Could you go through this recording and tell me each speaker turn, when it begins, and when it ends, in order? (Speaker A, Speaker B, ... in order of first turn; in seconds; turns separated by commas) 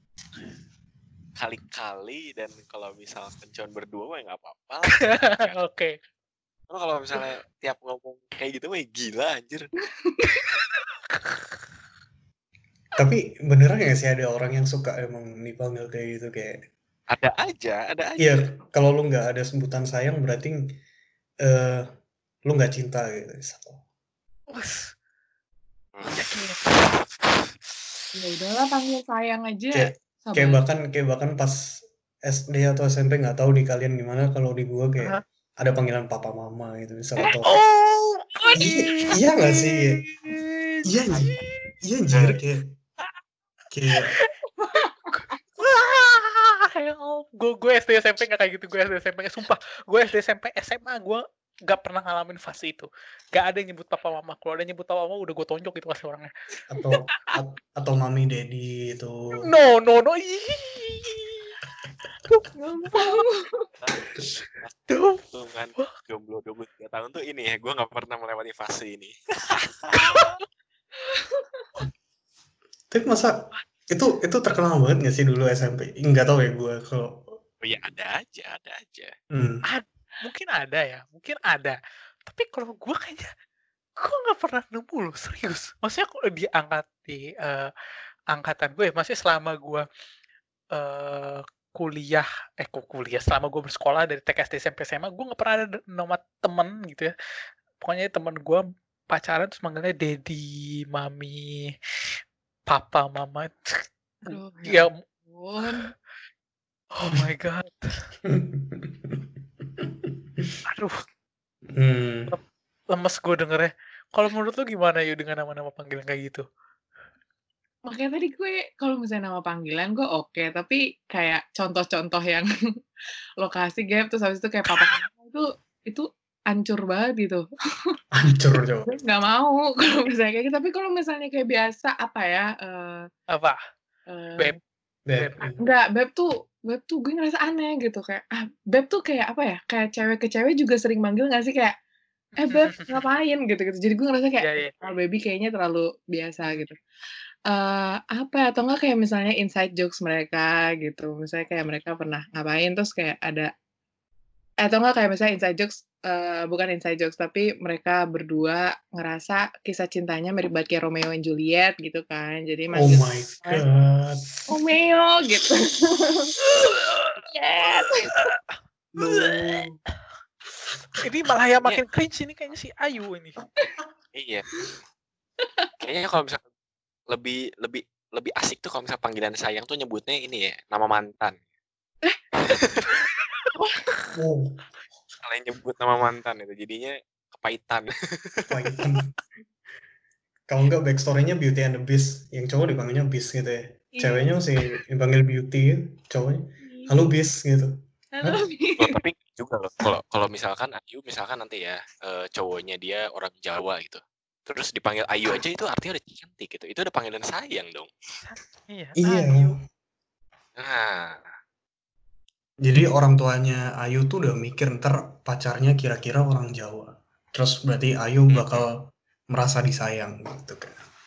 Speaker A: 1.4-5.6, Speaker B: 5.3-6.0, Speaker A: 6.7-9.7, Speaker C: 10.1-10.4, Speaker B: 11.2-11.5, Speaker D: 13.0-16.6, Speaker A: 17.1-18.4, Speaker D: 18.2-20.6, Speaker D: 21.4-21.9, Speaker D: 22.5-23.8, Speaker B: 24.5-24.9, Speaker A: 25.9-27.5, Speaker B: 26.1-26.6, Speaker C: 28.1-30.6, Speaker D: 29.7-37.5, Speaker B: 37.4-41.7, Speaker D: 38.6-40.0, Speaker D: 40.9-42.7, Speaker A: 42.1-42.4, Speaker D: 43.7-44.1, Speaker B: 44.0-44.3, Speaker C: 44.6-45.1, Speaker B: 45.1-56.3, Speaker D: 56.7-59.2, Speaker B: 59.4-61.6, Speaker B: 62.2-63.2, Speaker C: 62.5-63.7, Speaker A: 63.8-70.0, Speaker B: 64.9-65.2, Speaker B: 70.0-70.4, Speaker D: 72.9-73.3, Speaker D: 73.9-77.3, Speaker A: 77.6-79.1, Speaker D: 79.3-79.6, Speaker B: 79.7-83.3, Speaker B: 84.0-87.7, Speaker B: 88.3-89.8, Speaker B: 90.7-97.1, Speaker B: 97.8-101.7, Speaker B: 102.7-104.9, Speaker C: 104.2-105.9, Speaker B: 107.0-108.0, Speaker D: 108.2-110.5, Speaker B: 110.7-110.9, Speaker D: 111.7-112.3, Speaker B: 112.3-116.4, Speaker C: 117.9-122.5, Speaker C: 123.4-128.0, Speaker D: 128.1-128.9, Speaker C: 128.8-133.1, Speaker B: 133.3-133.6, Speaker C: 134.1-134.6, Speaker D: 135.1-135.6, Speaker B: 135.1-135.5, Speaker C: 135.5-141.8, Speaker C: 142.4-146.8, Speaker B: 142.4-143.1, Speaker B: 144.4-144.7, Speaker C: 147.5-153.5, Speaker C: 154.6-163.6, Speaker D: 162.7-164.2, Speaker C: 164.5-166.3, Speaker B: 166.4-167.3, Speaker C: 167.3-168.3, Speaker B: 168.0-168.4, Speaker D: 169.0-169.8, Speaker B: 169.0-169.5, Speaker B: 171.0-173.4, Speaker A: 174.1-174.5, Speaker A: 175.8-176.4, Speaker A: 177.1-181.4, Speaker A: 182.4-182.9, Speaker C: 183.6-183.8, Speaker D: 184.1-184.5, Speaker A: 185.2-188.8, Speaker D: 188.5-189.1, Speaker D: 190.5-197.7, Speaker C: 194.0-194.3, Speaker C: 196.7-197.0, Speaker C: 198.1-199.0, Speaker A: 198.8-207.9, Speaker B: 208.2-209.6, Speaker D: 209.0-209.6, Speaker A: 210.6-211.3, Speaker D: 212.6-218.8, Speaker A: 218.3-218.7, Speaker D: 219.3-220.8